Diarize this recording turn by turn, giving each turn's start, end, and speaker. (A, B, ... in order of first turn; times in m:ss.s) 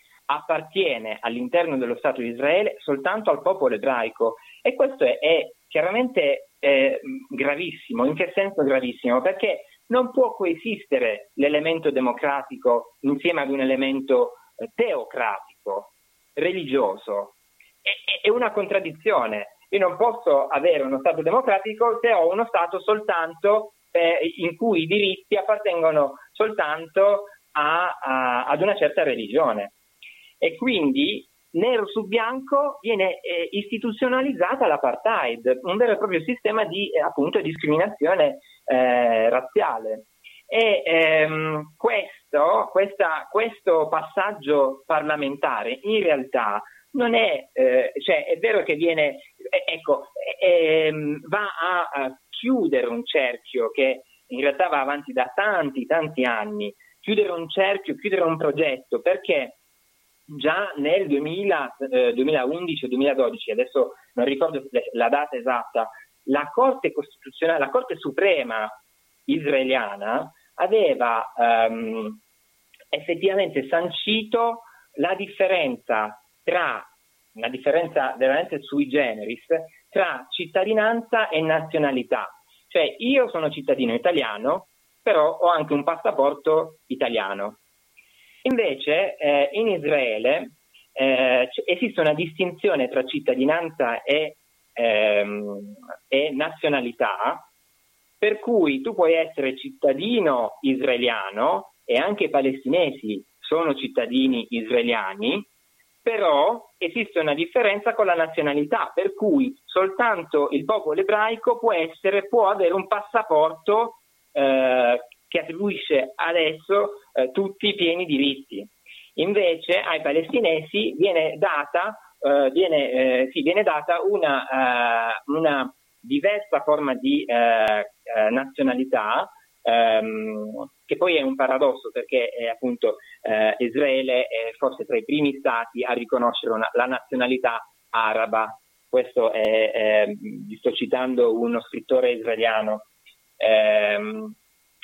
0:00.3-0:29.7 A
0:30.4-0:59.6 A
1:00.3-1:12.2 A
1:12.9-1:27.6 A
1:28.4-1:37.5 A
1:38.2-1:45.5 A
1:46.0-2:22.9 A
2:23.4-2:24.4 A